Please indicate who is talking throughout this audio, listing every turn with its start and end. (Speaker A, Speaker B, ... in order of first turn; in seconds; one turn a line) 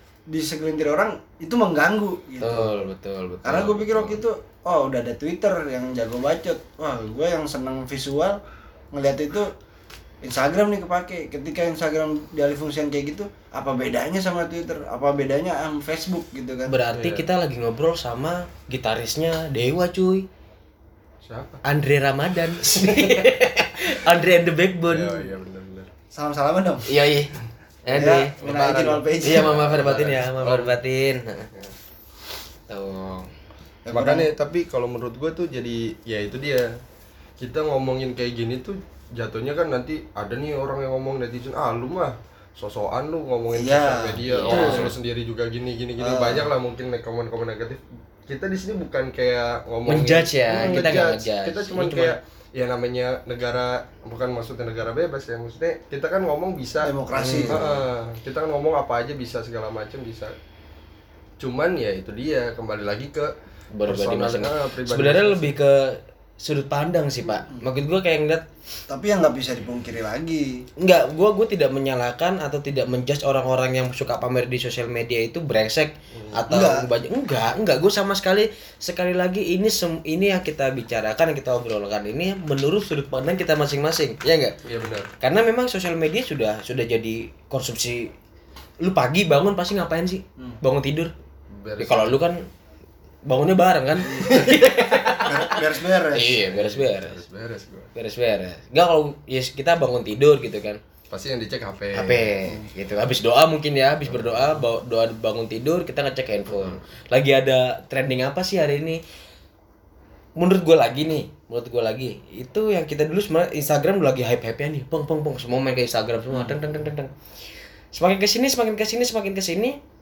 Speaker A: 0.3-2.8
Speaker B: 2.4-4.2
Speaker A: 3.4-8.4
Speaker A: 8.9-9.5
Speaker A: 10.2-16.8
Speaker B: 16.7-20.3
Speaker C: 16.9-17.3
Speaker C: 21.2-21.6
Speaker B: 21.6-25.2
Speaker C: 22.6-23.3
Speaker C: 24.9-25.9
Speaker A: 26.1-26.9
Speaker B: 26.9-27.3
Speaker B: 27.9-31.5
Speaker A: 27.9-29.5
Speaker C: 28.4-30.8
Speaker B: 32.7-33.3
Speaker A: 33.9-34.3
Speaker C: 33.9-36.7
Speaker C: 37.4-56.9
Speaker A: 43.5-44.9
Speaker B: 44.3-44.9
Speaker A: 46.0-46.5
Speaker B: 49.9-52.2
Speaker A: 56.8-57.6
Speaker B: 57.1-57.8
Speaker C: 57.5-60.3
Speaker C: 61.4-63.3
Speaker B: 63.8-68.4
Speaker C: 63.8-65.6
Speaker A: 68.9-70.6
Speaker B: 70.8-84.5
Speaker C: 76.1-76.4
Speaker A: 76.5-76.9
Speaker C: 84.7-85.1
Speaker B: 85.2-88.1
Speaker B: 88.8-91.1
Speaker C: 91.5-92.2
Speaker B: 91.8-92.5
Speaker B: 93.3-97.2
Speaker A: 94.0-94.6
Speaker C: 94.3-94.7
Speaker A: 95.2-96.4
Speaker C: 96.4-97.9
Speaker B: 98.0-100.8
Speaker C: 101.1-102.4
Speaker B: 101.9-109.0
Speaker C: 104.0-104.7
Speaker C: 106.5-106.8
Speaker B: 110.4-117.1
Speaker B: 117.9-119.8